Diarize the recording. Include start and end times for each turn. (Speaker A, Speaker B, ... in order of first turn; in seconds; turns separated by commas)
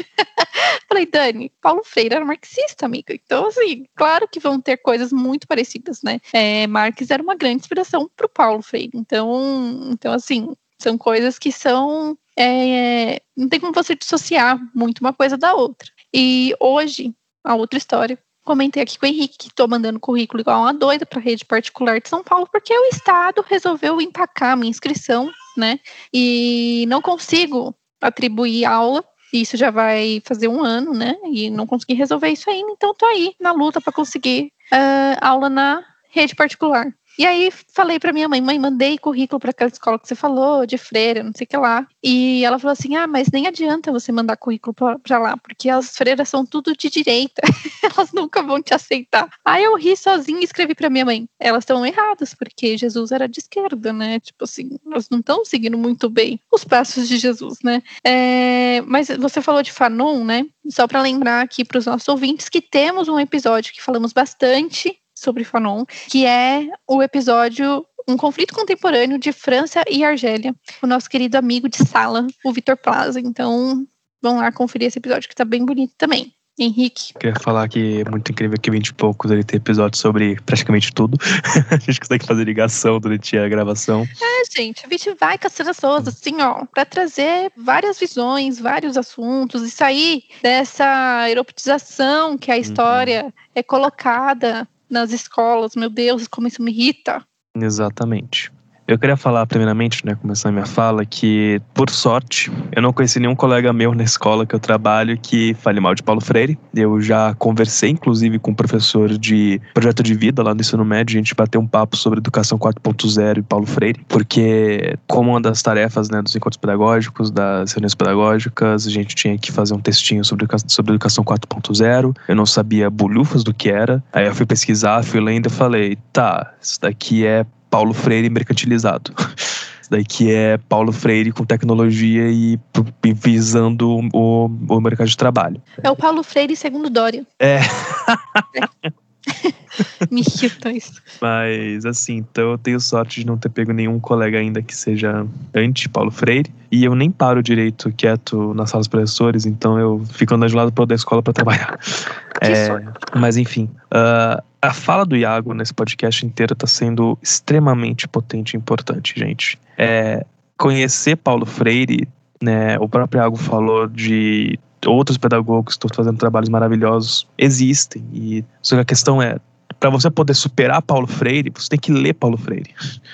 Speaker A: 0.4-77.1, Speaker B: 77.2-84.1, Speaker A: 84.2-97.2, Speaker B: 92.6-93.2, Speaker B: 97.5-129.2, Speaker B: 129.9-135.9, Speaker A: 135.8-137.2, Speaker B: 137.4-138.7, Speaker A: 140.1-141.0, Speaker B: 141.2-151.8, Speaker B: 152.4-172.8, Speaker A: 152.4-152.8